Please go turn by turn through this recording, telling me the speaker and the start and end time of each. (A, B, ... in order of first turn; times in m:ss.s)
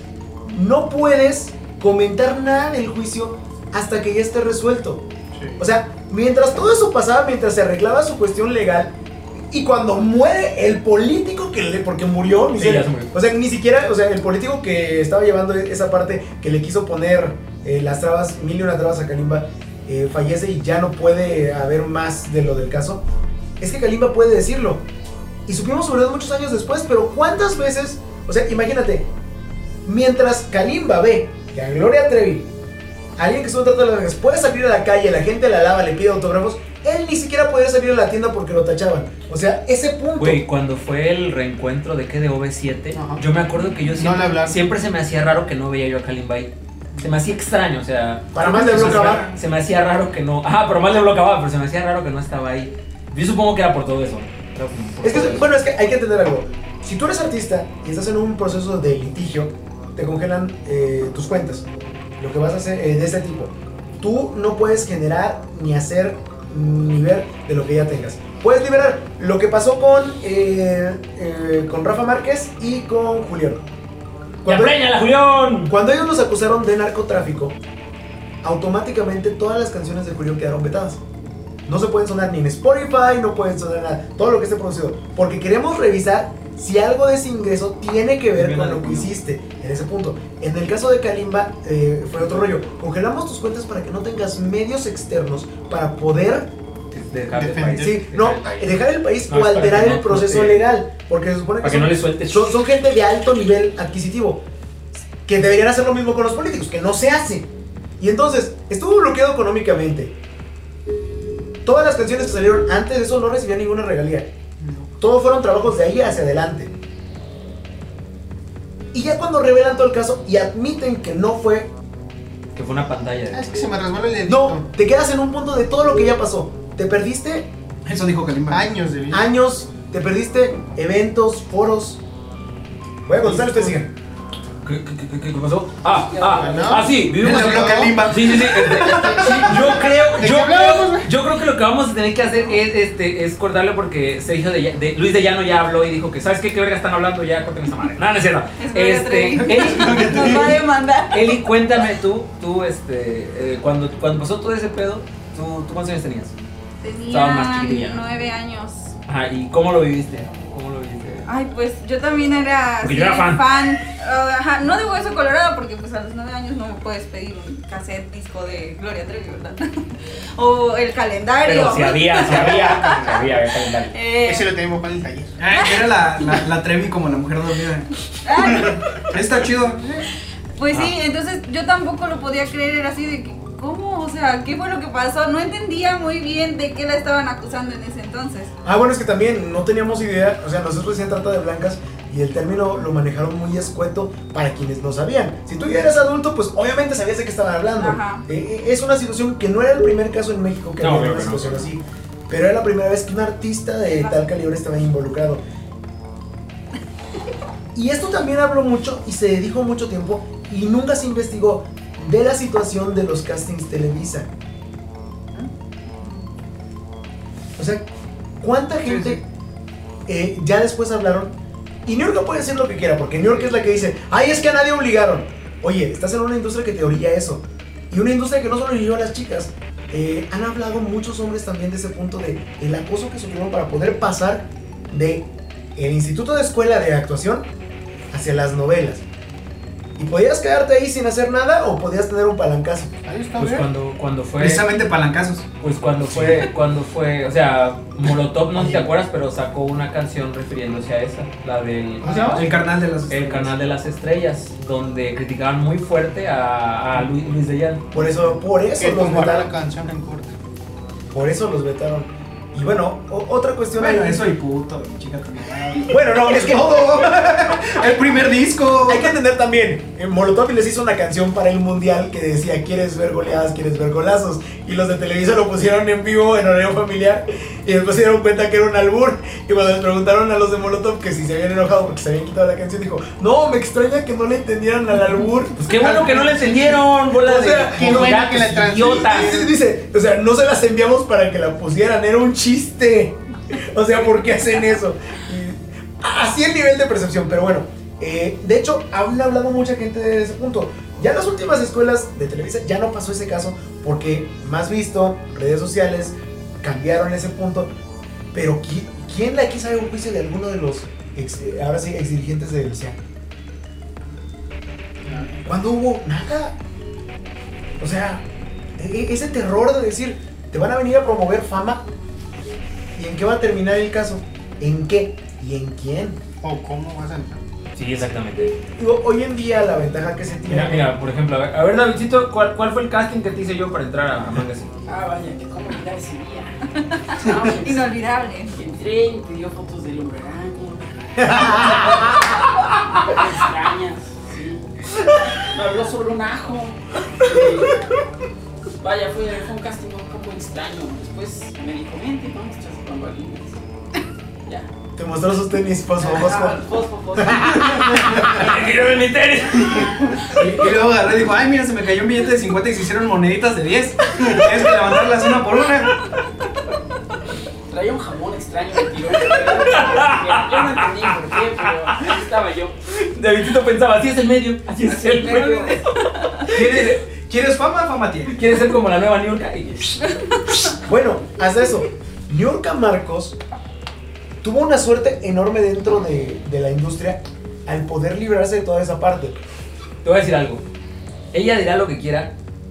0:00.5-0:05.0 A
0:05.6-0:08.9 A
0:09.5-0:23.0 A
0:12.5-0:13.1 B
0:23.6-0:24.8 A
0:25.5-0:29.1 A
0:29.8-0:32.5 A
0:33.2-0:40.4 A
0:40.2-0:55.5 B
0:42.9-0:43.2 C
0:43.9-0:44.6 C
0:48.3-0:49.2 A
0:48.4-0:49.3 D
0:55.0-1:01.6 A
1:02.2-1:13.6 A
1:14.4-1:14.8 A
1:14.4-1:15.7 B
1:15.6-1:17.6 A
1:18.4-1:21.0 A
1:21.6-1:36.5 A
1:28.3-1:29.1 B
1:36.9-1:38.8 B
1:37.3-1:38.0 C
1:37.8-1:44.4 A
1:39.3-1:40.7 B
1:41.6-1:42.6 B
1:45.2-1:50.1 A
1:51.6-1:54.3 A
1:54.6-1:54.9 C
1:55.0-1:56.7 A
1:58.9-2:01.7 A
2:02.5-2:03.5 B
2:03.3-2:04.7 C
2:04.2-2:07.5 A
2:07.8-2:08.7 D
2:08.5-2:09.3 C
2:09.1-2:12.0 A
2:13.0-2:13.9 A
2:14.6-2:36.3 B
2:16.1-2:16.8 E
2:16.3-2:21.1 C
2:17.2-2:19.7 D
2:28.6-2:31.3 F
2:29.4-2:30.6 D
2:36.8-2:38.9 F
2:37.1-2:38.0 B
2:39.1-2:41.3 B
2:41.2-2:53.2 F
2:42.8-2:43.5 B
2:51.4-2:53.9 B
2:52.2-2:53.2 C
2:53.9-2:54.5 F
2:54.2-2:55.4 C
2:55.4-2:57.9 D
2:55.5-2:55.9 F
2:58.2-2:59.1 F
2:58.4-2:58.8 C
2:58.6-3:00.1 D
3:00.6-3:08.5 F
3:08.6-3:25.4 A
3:17.8-3:18.2 F
3:20.8-3:21.7 B
3:23.9-3:24.2 F
3:27.7-3:34.3 A
3:37.6-3:37.8 A
3:38.4-3:39.2 A
3:38.8-3:39.2 D
3:40.1-3:57.5 A
3:58.1-3:59.0 A
4:00.0-4:02.9 A
4:03.0-4:03.7 C
4:03.4-4:04.7 B
4:04.4-4:05.5 D
4:05.6-4:12.6 B
4:06.1-4:06.4 A
4:08.6-4:08.8 A
4:12.0-4:12.4 C
4:12.3-4:13.5 D
4:13.1-4:17.8 B
4:17.9-4:19.5 A
4:18.7-4:20.3 C
4:21.1-4:24.2 A
4:23.8-4:29.1 D
4:25.9-4:27.1 A
4:28.8-4:48.2 A
4:45.6-4:49.4 B
4:45.8-4:46.5 C
4:47.7-4:49.5 C
4:49.0-5:07.7 A
5:08.3-5:13.0 A
5:15.0-5:15.3 C
5:15.2-5:16.6 A
5:17.8-5:18.2 A
5:18.8-5:21.8 A
5:23.0-5:26.2 A
5:26.4-5:27.4 C
5:27.8-5:28.5 B
5:28.8-5:30.9 A
5:30.5-5:34.7 B
5:34.9-5:36.5 E
5:37.0-5:38.6 F
5:37.2-5:38.0 E
5:38.5-5:42.3 E
5:41.2-5:42.1 A
5:43.0-5:44.7 E
5:45.3-5:47.8 E
5:48.8-5:53.6 E
5:55.0-5:56.6 A
5:56.0-5:58.2 E
5:57.2-5:58.3 A
5:57.9-6:00.4 B
6:00.3-6:06.1 D
6:07.7-6:12.8 E
6:09.7-6:12.1 B
6:12.9-6:16.9 B
6:14.8-6:15.8 E
6:16.2-6:16.4 F
6:16.4-6:18.4 D
6:18.3-6:20.5 B
6:20.8-6:23.4 A
6:24.4-6:29.4 A
6:30.0-6:30.6 B
6:31.3-6:32.3 B